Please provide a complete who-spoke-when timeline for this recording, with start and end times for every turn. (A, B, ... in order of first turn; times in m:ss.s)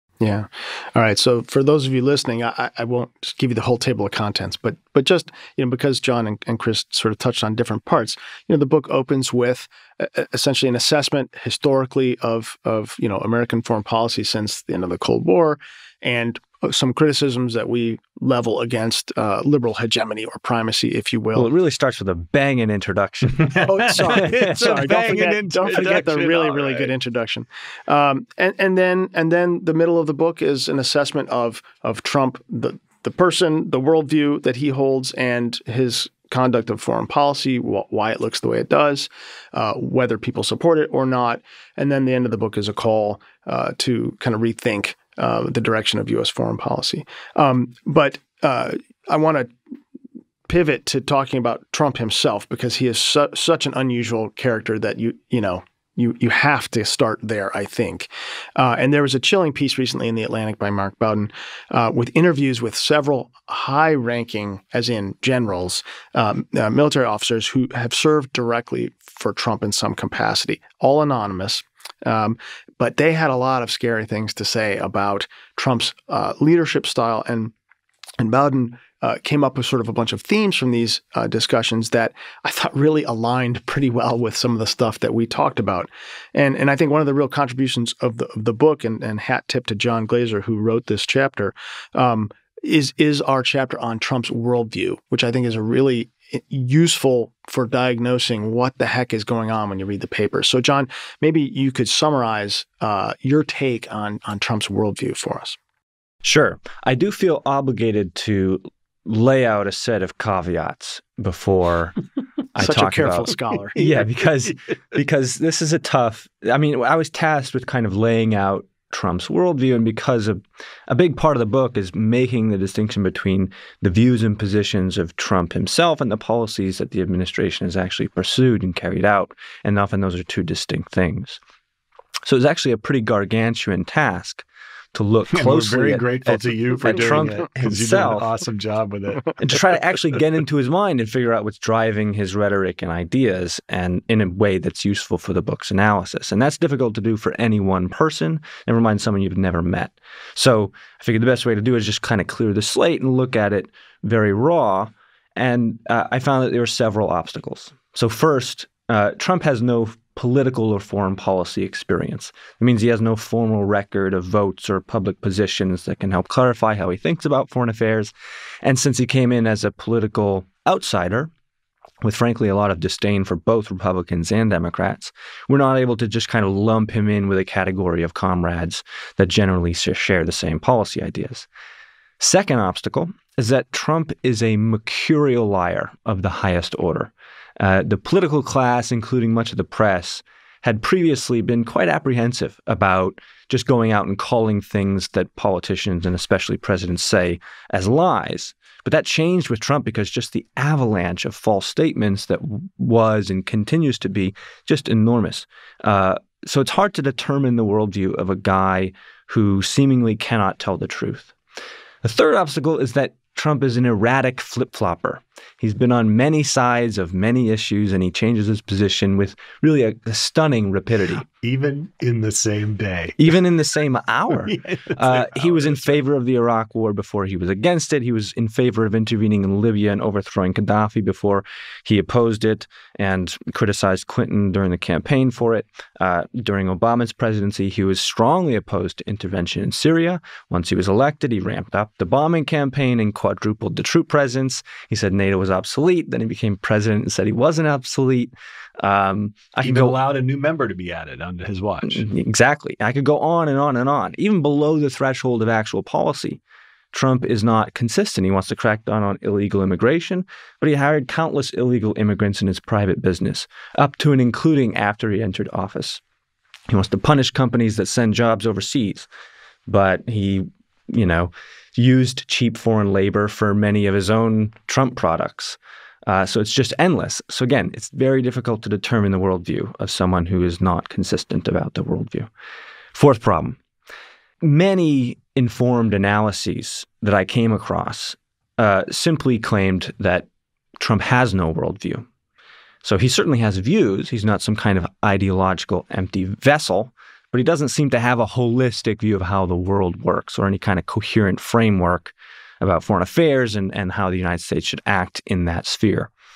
0:00.2-0:21.5 A
0:21.4-0:24.7 B
0:23.4-0:26.9 C
0:23.6-0:49.5 A
0:50.5-1:17.5 A
1:18.2-1:45.6 A
1:46.2-1:52.0 B
1:52.5-2:11.4 B
1:52.6-1:53.8 A
2:12.3-2:18.3 B
2:15.3-2:19.6 C
2:19.4-2:48.1 B
2:48.6-2:51.3 B
2:52.0-3:01.5 B
3:02.2-3:31.3 B
3:32.0-3:41.3 B
3:41.2-3:43.3 C
3:43.2-4:10.0 B
3:44.4-3:46.0 C
4:09.6-4:12.0 C
4:11.8-4:16.4 B
4:16.9-4:26.0 B
4:26.7-4:29.1 B
4:29.7-4:42.3 B
4:42.9-4:43.6 B
4:44.4-4:50.3 B
4:50.8-4:52.1 B
4:52.8-5:06.1 B